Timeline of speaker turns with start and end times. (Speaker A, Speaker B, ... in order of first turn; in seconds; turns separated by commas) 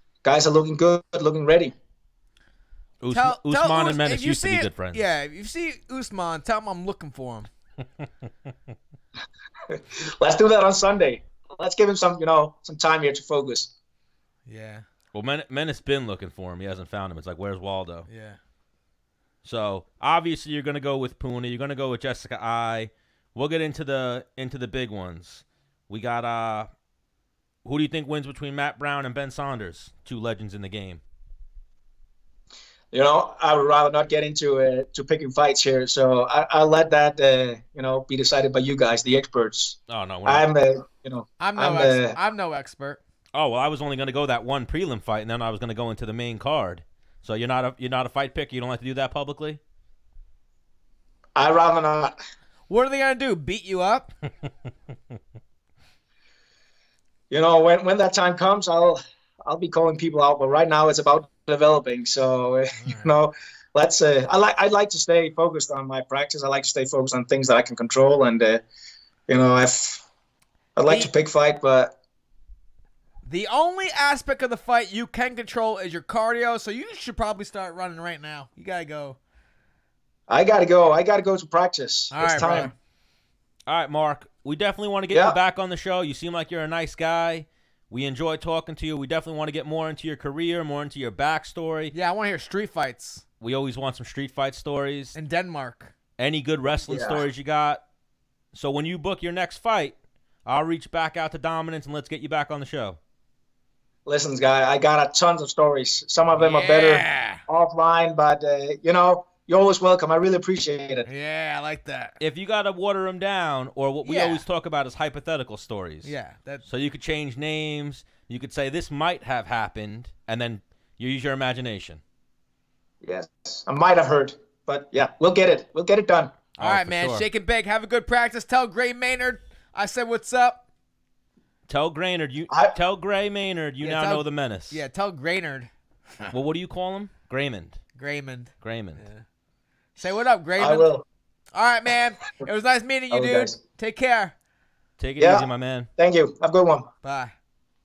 Speaker A: 0.2-1.7, Speaker B: 3.0-5.1, Speaker C: 3.1-7.5, Speaker A: 9.7-13.7, Speaker C: 14.5-14.8, Speaker B: 15.1-18.1, Speaker C: 18.1-18.4, Speaker B: 19.4-26.7, Speaker B: 27.6-31.0, Speaker A: 32.9-42.2, Speaker B: 39.9-40.5, Speaker C: 41.4-43.0, Speaker B: 43.3-49.6, Speaker A: 51.4-52.2, Speaker C: 52.7-54.1, Speaker A: 57.3-68.6, Speaker C: 62.8-63.2, Speaker A: 69.3-70.1, Speaker A: 70.8-71.9, Speaker C: 73.2-79.2, Speaker A: 80.3-82.7, Speaker C: 82.1-82.7, Speaker B: 83.7-92.0, Speaker A: 85.1-85.4, Speaker C: 91.9-93.2, Speaker B: 93.4-95.2, Speaker C: 95.2-96.0, Speaker B: 96.2-97.8, Speaker A: 96.9-97.2, Speaker B: 98.5-103.0, Speaker A: 104.1-111.1, Speaker C: 106.4-107.4, Speaker C: 111.0-112.2, Speaker B: 112.2-122.0, Speaker C: 114.0-114.5, Speaker C: 116.0-116.6, Speaker A: 123.0-126.4, Speaker B: 126.6-127.2, Speaker C: 126.6-130.6, Speaker B: 131.7-134.8, Speaker A: 132.5-132.8, Speaker C: 133.8-135.7, Speaker B: 136.3-137.8, Speaker C: 138.0-139.2, Speaker B: 138.6-139.1, Speaker C: 140.0-140.9, Speaker A: 140.6-141.1, Speaker C: 141.5-144.3, Speaker A: 143.1-143.6, Speaker B: 145.0-145.9, Speaker A: 145.2-146.9, Speaker C: 147.0-147.3